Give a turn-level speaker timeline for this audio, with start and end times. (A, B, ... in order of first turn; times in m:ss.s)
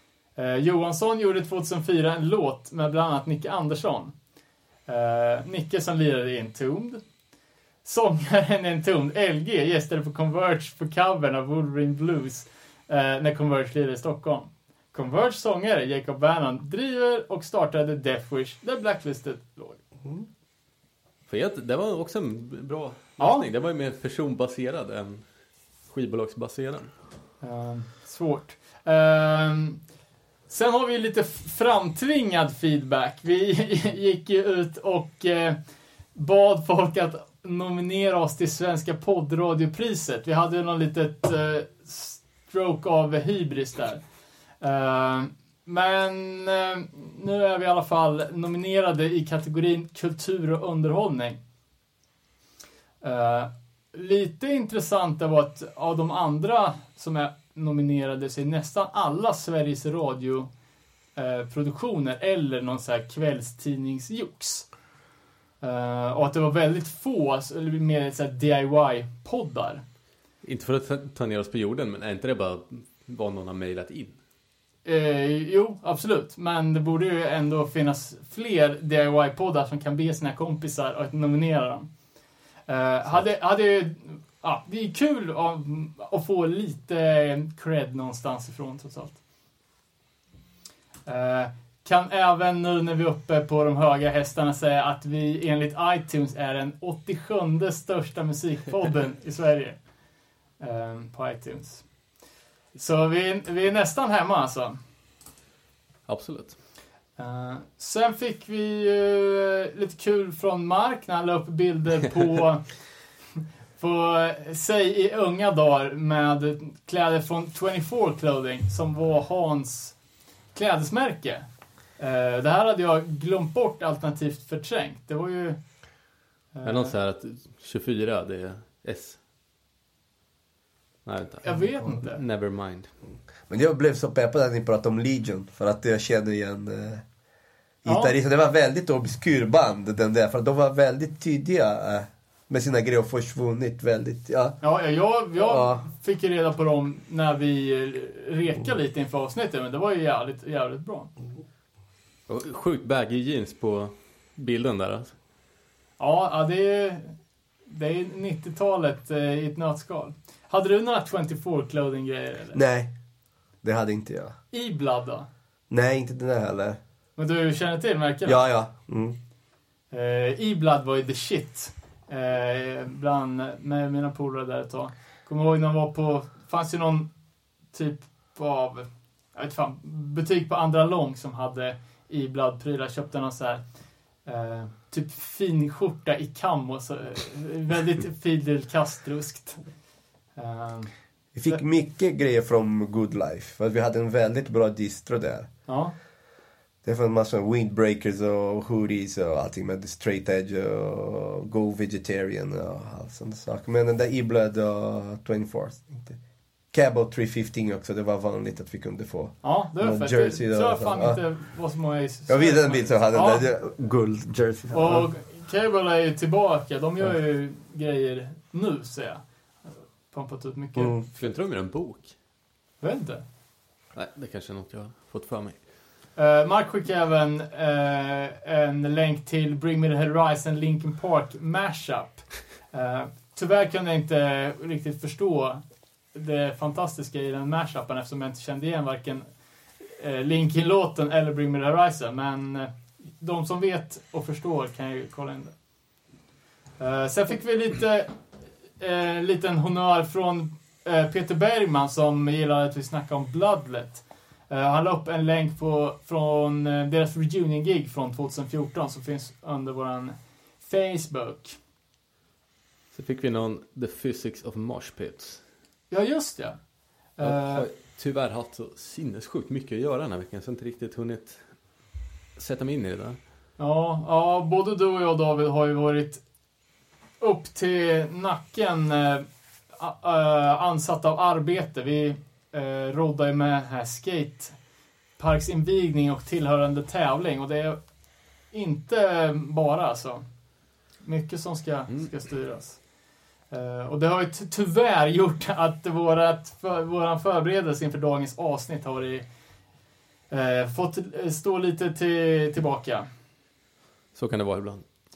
0:00.4-0:04.2 A
0:04.9-0:07.1 A
0:07.8-0:19.8 A
0:21.3-0:26.9 B
0:23.2-0:23.5 A
0:27.4-0:29.8 A
0:30.5-0:35.6 A
0:36.1-0:51.4 A
0:53.0-1:00.5 A
1:01.2-1:04.7 A
1:05.6-1:09.8 A
1:10.4-1:14.2 B
1:14.8-1:21.9 A
1:22.7-1:29.2 A
1:31.1-1:40.0 A
1:40.6-1:41.9 A
1:42.8-1:44.8 A
1:46.1-1:46.6 B
1:47.2-1:52.8 A
1:53.8-2:00.0 A
2:00.5-2:05.6 A
2:06.5-2:07.0 A
2:06.6-2:09.2 B
2:11.1-2:12.9 B
2:11.4-2:12.2 A
2:13.5-2:17.0 C
2:17.8-2:24.6 C
2:17.8-2:18.2 A
2:24.6-2:31.1 A
2:25.4-2:25.8 C
2:32.3-2:35.2 B
2:36.0-2:37.2 A
2:37.7-2:42.6 A
2:42.5-2:42.9 C
2:43.6-2:44.4 C
2:44.5-2:45.3 A
2:45.7-2:46.8 C
2:47.2-2:48.4 A
2:48.2-2:49.2 C
2:49.9-2:57.1 A
2:57.7-3:03.7 A
3:04.2-3:09.7 A
3:10.4-3:10.9 A
3:11.4-3:15.5 C
3:15.7-3:15.9 A
3:16.8-3:26.2 C
3:26.7-3:31.2 C
3:29.4-3:33.5 A
3:32.3-3:35.1 C
3:34.7-3:41.1 A
3:40.8-3:41.0 C
3:41.2-3:42.1 B
3:42.8-3:43.2 A
3:43.9-3:45.7 B
3:46.2-3:59.3 A
3:59.9-4:05.6 A
4:06.8-4:08.2 A
4:08.8-4:21.6 A
4:22.9-4:25.4 B
4:25.9-4:26.6 A
4:27.2-4:27.7 A
4:27.2-4:31.5 B
4:32.4-4:33.2 B
4:33.6-4:36.2 A
4:37.2-4:39.3 A
4:39.8-4:44.6 A
4:45.2-4:50.3 A
4:51.0-4:52.9 A
4:53.5-4:59.3 A
5:00.3-5:03.1 A
5:04.2-5:04.8 B